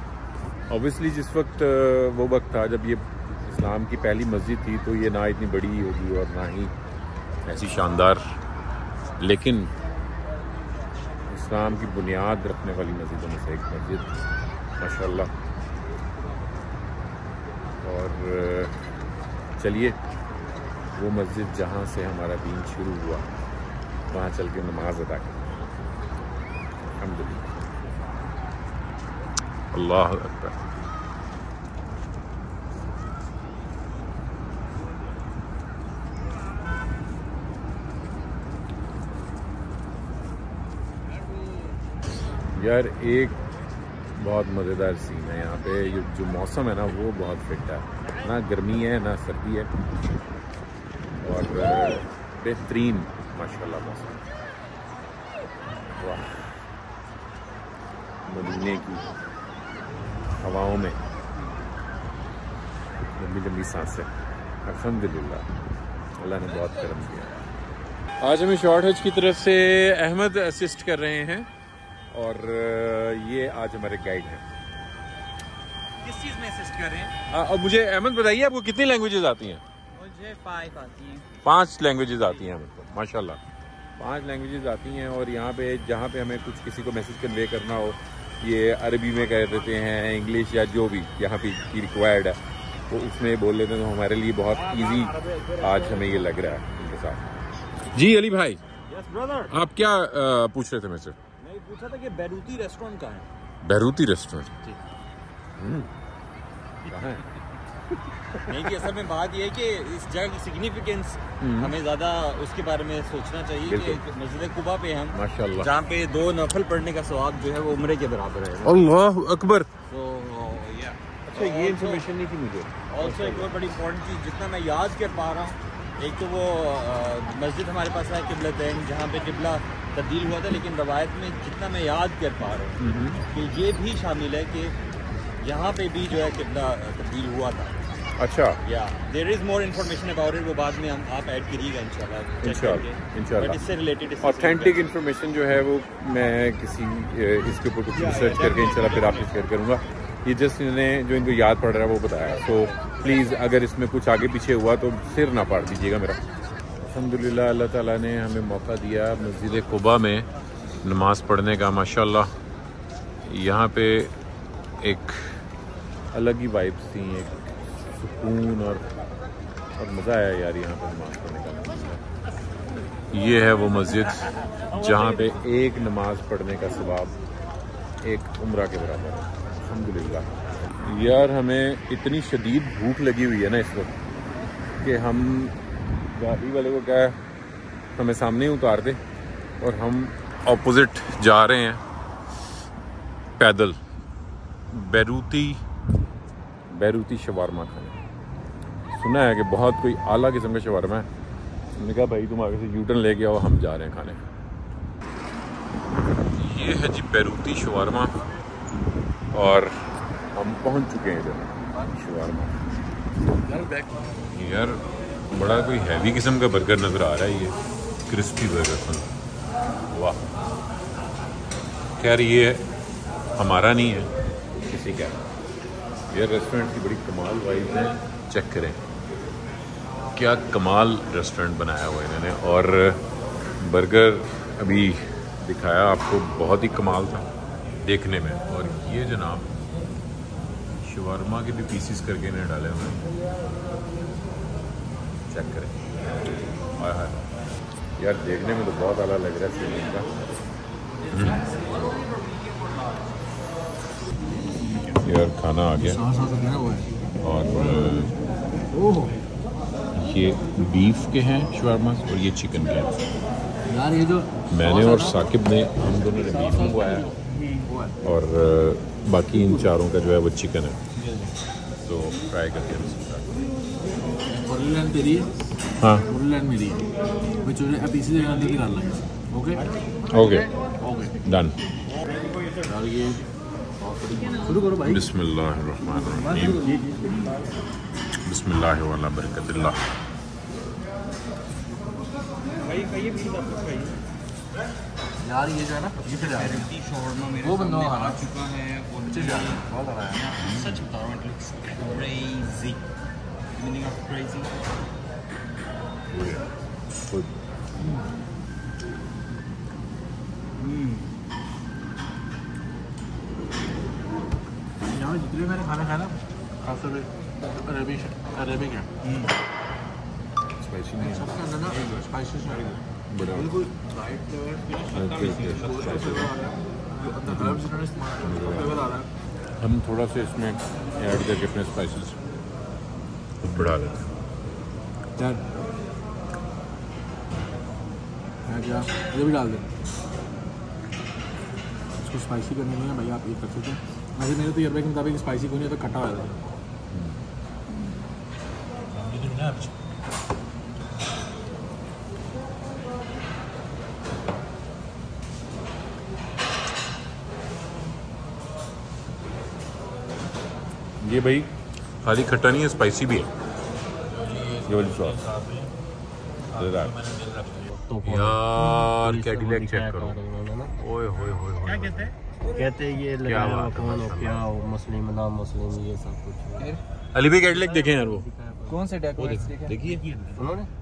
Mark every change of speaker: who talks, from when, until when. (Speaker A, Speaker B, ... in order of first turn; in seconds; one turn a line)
Speaker A: 0.7-6.7
Speaker A: 7.4-8.3
Speaker A: 9.2-9.7
Speaker A: 11.3-14.1
Speaker A: 14.8-15.3
Speaker A: 17.8-18.7
Speaker A: 19.6-20.0
Speaker A: 20.9-23.3
Speaker A: 24.1-25.8
Speaker A: 26.9-27.6
Speaker A: 29.7-30.7
Speaker A: 42.5-43.4
Speaker A: 44.2-49.7
Speaker A: 51.2-54.2
Speaker A: 56.0-56.3
Speaker A: 58.2-59.1
Speaker A: 60.4-61.0
Speaker A: 63.2-64.1
Speaker A: 64.7-65.5
Speaker A: 66.2-67.4
Speaker A: 68.2-71.5
Speaker A: 72.1-74.4
Speaker B: 76.0-77.2
Speaker A: 77.3-79.6
Speaker B: 79.9-81.3
Speaker A: 81.4-83.4
Speaker A: 84.0-92.4
Speaker A: 92.9-97.3
Speaker B: 94.5-96.1
Speaker A: 97.9-98.6
Speaker B: 98.9-99.5
Speaker A: 99.5-101.2
Speaker B: 101.4-103.3
Speaker A: 103.6-104.5
Speaker A: 105.6-105.9
Speaker A: 106.9-107.2
Speaker B: 108.4-118.9
Speaker A: 111.4-111.7
Speaker A: 113.7-114.0
Speaker A: 115.1-115.7
Speaker A: 118.6-119.7
Speaker B: 119.9-122.0
Speaker A: 121.3-123.5
Speaker B: 122.9-134.8
Speaker A: 132.8-133.2
Speaker B: 135.4-137.8
Speaker A: 138.2-138.6
Speaker B: 138.6-144.8
Speaker A: 142.4-143.6
Speaker A: 144.2-156.2
Speaker B: 147.9-149.3
Speaker A: 156.8-160.3
Speaker A: 160.8-162.3
Speaker A: 163.2-164.1
Speaker A: 164.8-165.4
Speaker A: 166.1-167.4
Speaker A: 167.9-168.8
Speaker A: 169.8-172.0
Speaker A: 173.1-177.2
Speaker A: 178.0-183.9
Speaker A: 184.8-185.6
Speaker A: 186.1-187.2
Speaker A: 187.9-189.0
Speaker A: 189.6-191.8
Speaker A: 193.4-193.8
Speaker A: 194.7-195.6
Speaker A: 196.7-198.0
Speaker A: 198.9-201.1
Speaker A: 201.8-204.2
Speaker A: 206.3-208.2
Speaker A: 209.3-209.7
Speaker A: 210.3-212.6
Speaker C: 213.4-214.1
Speaker A: 214.3-217.6
Speaker A: 218.1-219.1
Speaker A: 219.9-220.2
Speaker A: 222.0-222.7
Speaker A: 223.4-224.1
Speaker A: 224.7-225.2
Speaker A: 226.1-228.8
Speaker A: 230.1-233.0
Speaker A: 233.6-237.3
Speaker A: 237.8-239.5
Speaker A: 240.8-243.1
Speaker A: 245.3-245.9
Speaker A: 246.8-247.2
Speaker A: 248.0-250.1
Speaker A: 251.1-251.6
Speaker A: 255.0-256.0
Speaker C: 255.8-256.9
Speaker A: 257.2-258.2
Speaker C: 258.7-259.2
Speaker A: 259.9-262.9
Speaker C: 263.6-265.2
Speaker A: 264.5-267.1
Speaker C: 266.1-267.9
Speaker A: 268.0-270.8
Speaker C: 271.0-271.3
Speaker A: 271.8-273.3
Speaker C: 274.3-275.3
Speaker A: 275.8-276.1
Speaker C: 276.1-276.9
Speaker C: 277.4-281.1
Speaker A: 280.1-280.5
Speaker A: 281.2-281.6
Speaker C: 282.6-283.3
Speaker C: 283.8-285.0
Speaker A: 284.8-286.7
Speaker C: 286.1-287.3
Speaker A: 288.2-289.8
Speaker B: 292.6-294.0
Speaker C: 295.2-296.7
Speaker B: 296.0-299.6
Speaker C: 297.4-298.2
Speaker C: 299.1-300.4
Speaker B: 300.3-302.8
Speaker A: 300.4-300.8
Speaker B: 303.5-304.5
Speaker A: 306.1-306.4
Speaker A: 307.1-307.3
Speaker B: 310.6-311.1
Speaker C: 314.9-318.9
Speaker B: 319.0-319.3
Speaker A: 320.6-321.3
Speaker C: 321.0-329.1
Speaker A: 323.1-323.5
Speaker A: 324.9-326.3
Speaker A: 327.3-327.6
Speaker A: 328.2-328.8
Speaker A: 329.6-332.2
Speaker A: 333.4-334.1
Speaker C: 335.2-335.5
Speaker C: 338.4-339.7
Speaker C: 342.0-346.5
Speaker A: 346.9-347.2
Speaker C: 348.9-349.7
Speaker A: 361.0-363.3
Speaker C: 364.1-365.7
Speaker A: 364.6-365.3
Speaker A: 366.5-367.0
Speaker C: 366.7-367.7
Speaker D: 367.7-370.8
Speaker A: 368.0-370.2
Speaker A: 370.8-372.1
Speaker D: 372.5-376.8
Speaker A: 373.2-374.5
Speaker A: 377.1-378.3
Speaker D: 377.8-378.8
Speaker B: 378.7-380.4
Speaker C: 378.8-379.4
Speaker A: 379.2-380.0
Speaker D: 380.3-380.7